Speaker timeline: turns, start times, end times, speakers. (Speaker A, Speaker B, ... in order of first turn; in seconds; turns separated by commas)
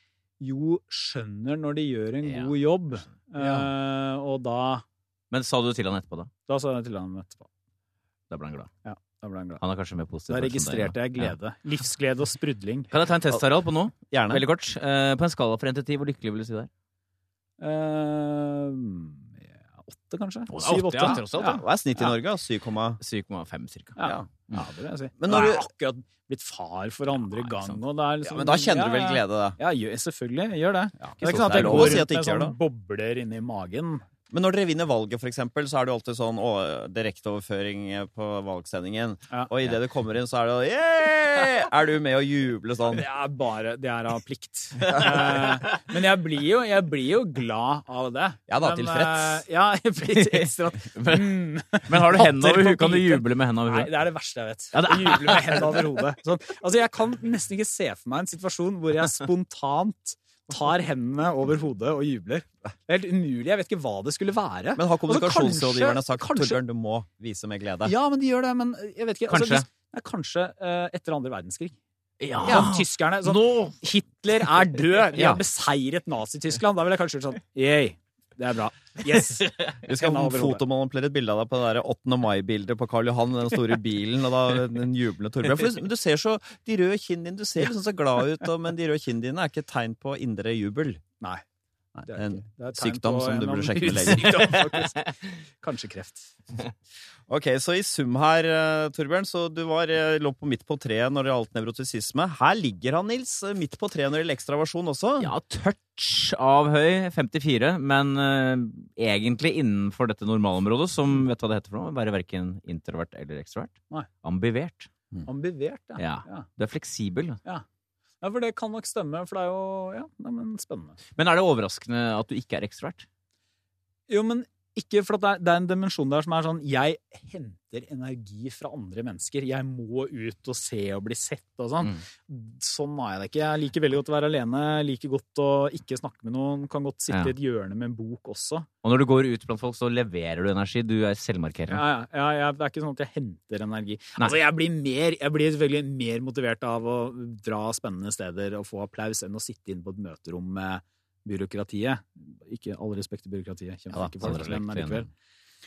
Speaker A: 0.4-4.8, Speaker B: 2.2-2.5, Speaker C: 3.4-3.6, Speaker B: 5.3-6.3, Speaker A: 6.5-7.5, Speaker B: 8.3-8.7, Speaker A: 8.8-9.6, Speaker B: 9.6-11.3, Speaker A: 10.3-12.9, Speaker B: 12.9-16.7, Speaker C: 14.1-14.4, Speaker A: 17.6-21.6, Speaker B: 20.5-21.6, Speaker C: 21.4-23.0, Speaker B: 23.0-24.0, Speaker A: 24.0-34.0, Speaker C: 24.0-24.3, Speaker C: 25.2-25.6, Speaker B: 27.2-27.8, Speaker C: 28.2-29.6, Speaker C: 31.0-32.5, Speaker B: 31.2-32.0, Speaker C: 34.3-43.0, Speaker A: 42.9-66.6, Speaker C: 48.5-49.4, Speaker B: 50.1-53.9, Speaker B: 54.7-55.8, Speaker C: 64.8-67.9, Speaker A: 67.8-71.8, Speaker B: 69.3-69.6, Speaker B: 72.2-73.8, Speaker A: 72.4-80.6, Speaker C: 75.1-75.4, Speaker C: 79.8-91.0, Speaker C: 91.9-94.5, Speaker A: 92.1-96.4, Speaker B: 94.3-94.5, Speaker C: 97.3-105.3, Speaker B: 105.2-114.9, Speaker A: 115.2-116.5, Speaker B: 116.0-117.4, Speaker A: 118.2-121.0, Speaker B: 121.2-123.0, Speaker A: 124.1-138.7, Speaker B: 138.8-141.8, Speaker A: 141.7-155.1, Speaker B: 153.9-155.1